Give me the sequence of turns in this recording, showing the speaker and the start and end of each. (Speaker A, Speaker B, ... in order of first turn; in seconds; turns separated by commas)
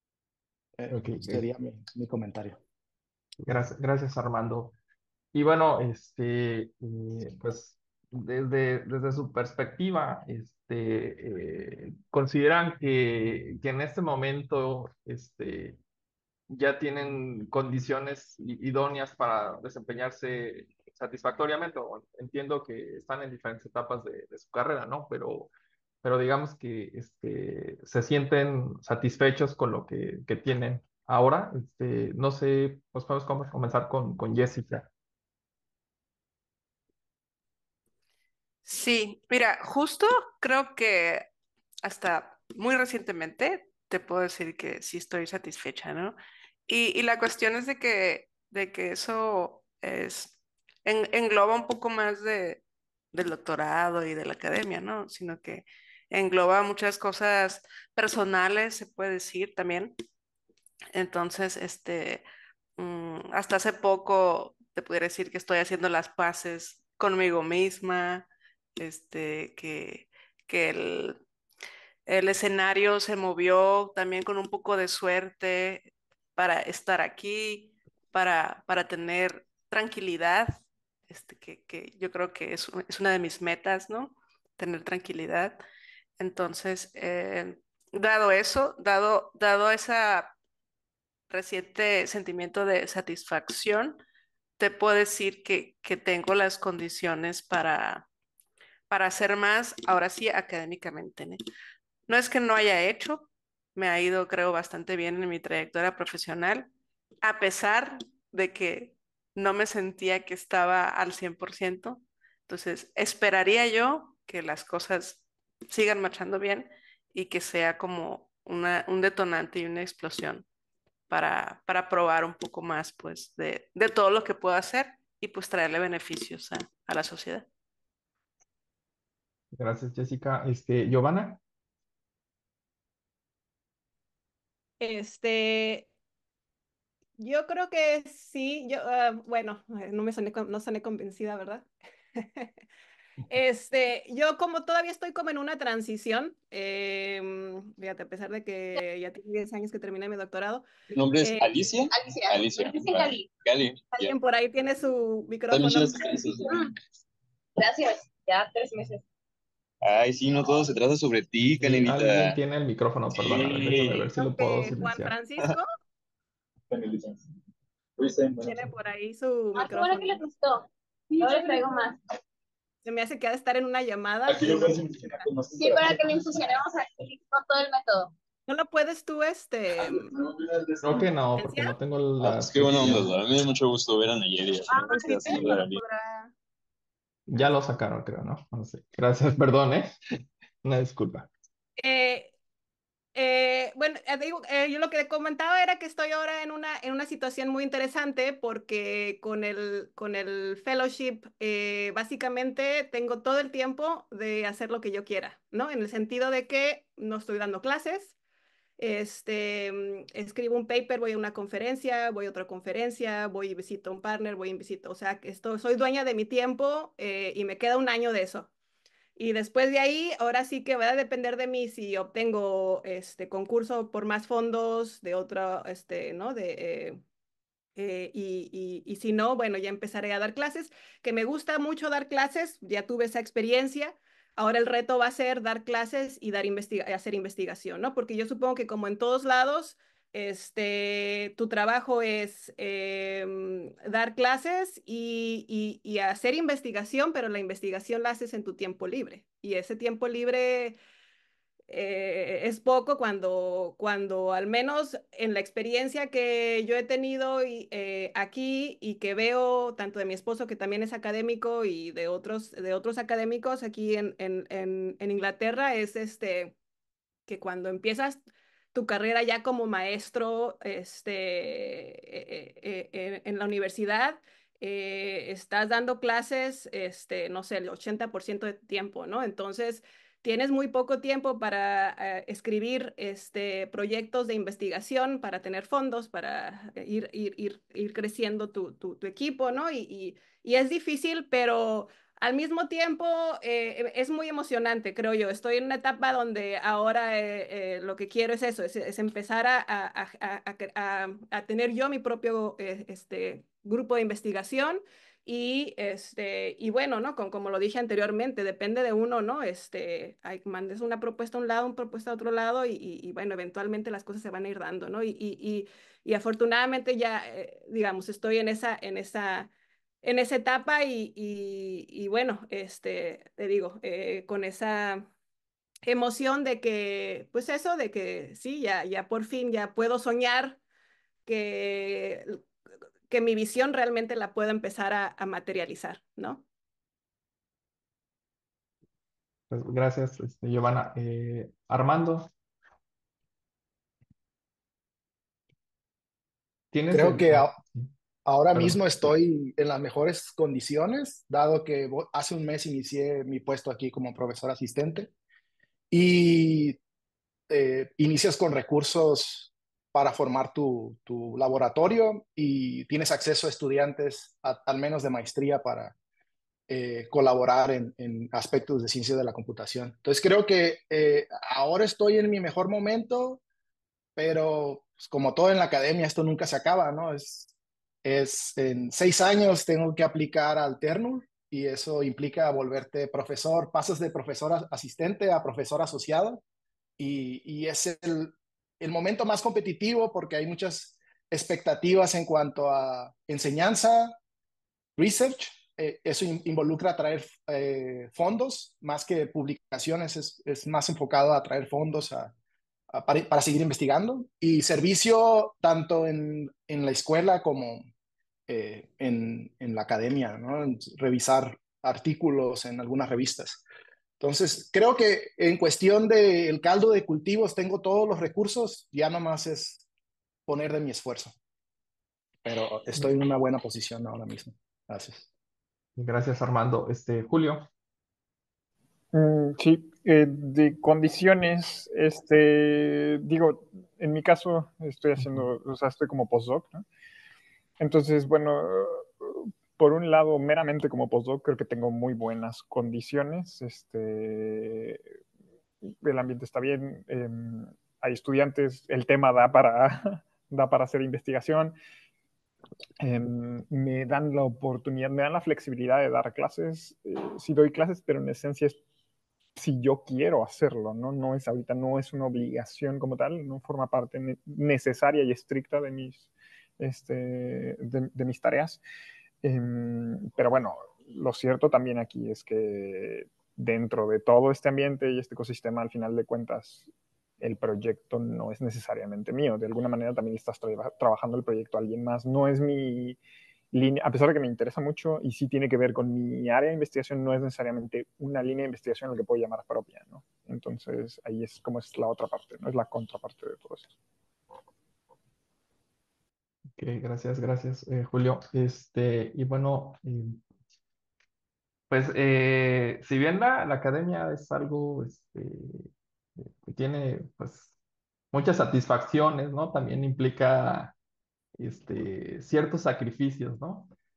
Speaker A: 0.8-2.6, Speaker B: 0.9-1.4, Speaker B: 3.4-4.7, Speaker B: 5.3-15.8, Speaker B: 16.5-25.5, Speaker B: 26.0-34.9, Speaker C: 38.6-41.2, Speaker C: 41.8-52.6, Speaker C: 53.1-59.9, Speaker C: 60.9-62.2, Speaker C: 62.8-68.3, Speaker C: 68.8-71.2, Speaker C: 72.1-80.5, Speaker C: 81.1-85.6, Speaker C: 86.2-90.3, Speaker C: 91.3-94.0, Speaker C: 94.6-98.0, Speaker C: 98.9-101.4, Speaker C: 102.1-106.7, Speaker C: 107.2-120.5, Speaker C: 121.1-127.5, Speaker B: 129.5-131.4, Speaker D: 134.8-135.9, Speaker D: 137.2-142.5, Speaker D: 143.3-150.7, Speaker E: 150.9-154.1, Speaker D: 151.2-151.6, Speaker F: 151.9-153.3, Speaker D: 153.9-156.2, Speaker E: 155.5-156.5, Speaker F: 156.4-156.7, Speaker F: 157.6-159.0, Speaker E: 159.8-162.3, Speaker B: 161.6-165.2, Speaker E: 163.1-164.1, Speaker D: 164.2-165.7, Speaker E: 166.7-167.2, Speaker E: 168.0-168.7, Speaker D: 168.4-170.2, Speaker F: 169.5-172.0, Speaker D: 172.8-175.3, Speaker E: 174.3-176.0, Speaker F: 175.6-178.1, Speaker D: 178.5-180.1, Speaker E: 179.8-181.1, Speaker B: 180.8-183.1, Speaker D: 181.4-181.7, Speaker E: 182.2-185.8, Speaker F: 184.7-186.0, Speaker B: 187.3-189.9, Speaker B: 190.6-191.3, Speaker D: 191.8-192.3, Speaker D: 193.1-208.1, Speaker D: 208.8-218.5, Speaker D: 219.2-227.0, Speaker D: 227.8-250.7, Speaker D: 251.7-266.5, Speaker D: 267.3-268.2, Speaker D: 268.7-319.5, Speaker D: 320.0-325.1, Speaker D: 325.8-330.6, Speaker D: 331.2-332.4, Speaker D: 333.1-336.4, Speaker B: 339.5-342.3, Speaker B: 346.7-347.9, Speaker A: 346.9-347.5, Speaker A: 348.2-355.1, Speaker B: 348.5-349.1, Speaker A: 355.9-356.8, Speaker A: 357.5-365.9, Speaker A: 366.7-373.4, Speaker A: 374.1-377.5, Speaker A: 378.0-386.4, Speaker A: 387.0-394.1, Speaker A: 395.0-402.3, Speaker A: 402.9-407.9, Speaker A: 408.5-413.6, Speaker A: 414.2-419.8, Speaker A: 420.5-421.3, Speaker A: 422.4-425.2, Speaker B: 426.0-427.7, Speaker G: 429.1-436.8, Speaker B: 435.2-435.5, Speaker G: 437.8-445.0, Speaker G: 445.8-451.7, Speaker G: 453.0-458.8, Speaker G: 459.6-466.3, Speaker G: 466.8-468.8, Speaker G: 469.4-476.9, Speaker G: 477.4-483.2, Speaker G: 483.7-493.9, Speaker B: 496.8-500.4, Speaker B: 501.9-505.9, Speaker B: 506.4-507.7, Speaker B: 508.3-510.9, Speaker B: 511.6-513.9